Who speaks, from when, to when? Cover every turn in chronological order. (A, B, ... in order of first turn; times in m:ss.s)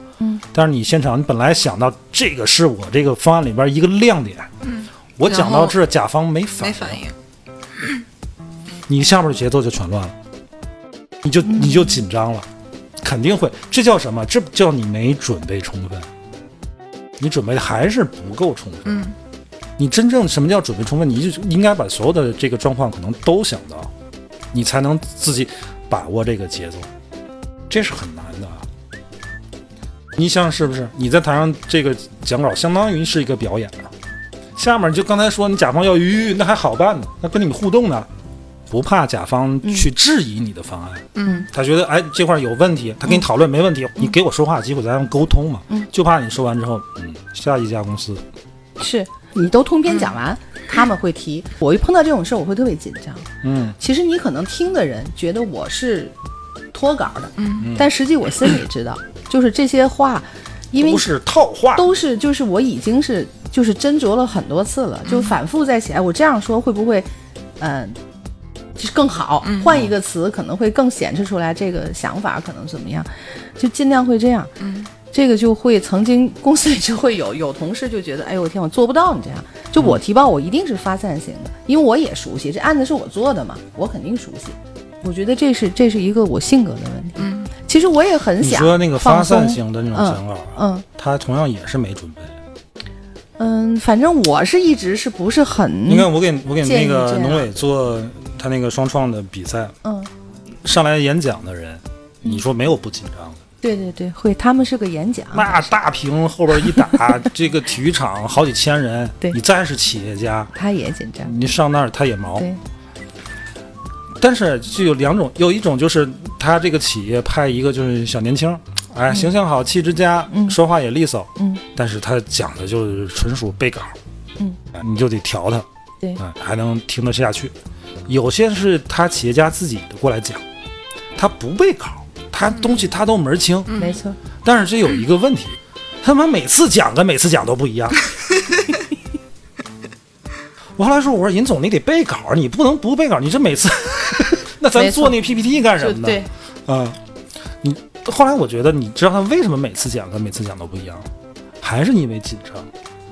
0:00.5-0:04.5 A
0:04.6-0:05.8 B
0:05.2-0:07.0 A
0:06.6-0:07.1 B
0:08.9-0:10.1 A
0:11.2-0:12.5 A
0:13.0-0:16.1 A
0:17.2-0:19.0 A
0:18.9-0:19.1 B
0:19.8-0:23.9 A
0:24.5-0:26.9 A
0:27.7-0:28.7 A
0:30.1-0:33.9 A
0:34.6-0:38.1 A
0:38.7-0:48.2 A
0:39.6-0:39.9 C
0:41.1-0:41.5 B
0:48.8-0:56.1 C
0:53.4-0:53.8 A
0:56.7-1:01.1 C
0:57.4-0:57.7 B
0:57.6-0:57.9 A
1:00.8-1:01.9 A
1:01.7-1:07.1 C
1:05.1-1:05.4 B
1:07.6-1:08.0 C
1:08.8-1:14.5 C
1:09.4-1:09.7 B
1:14.6-1:14.9 B
1:15.1-1:30.8 C
1:27.2-1:27.5 B
1:28.4-1:32.4 A
1:33.4-1:36.1 C
1:35.9-1:39.8 A
1:36.6-1:37.5 C
1:39.8-1:40.1 C
1:40.6-1:43.4 A
1:43.6-1:45.7 C
1:45.3-1:50.5 A
1:50.6-1:51.3 C
1:51.2-1:52.5 A
1:54.2-2:04.0 A
2:00.3-2:00.6 C
2:01.4-2:01.6 C
2:04.7-2:07.6 A
2:08.1-2:10.4 A
2:11.2-2:13.8 A
2:13.7-2:14.0 B
2:13.8-2:14.2 C
2:14.4-2:18.0 A
2:20.8-2:27.0 A
2:24.7-2:25.2 C
2:25.7-2:26.3 C
2:27.6-2:32.7 A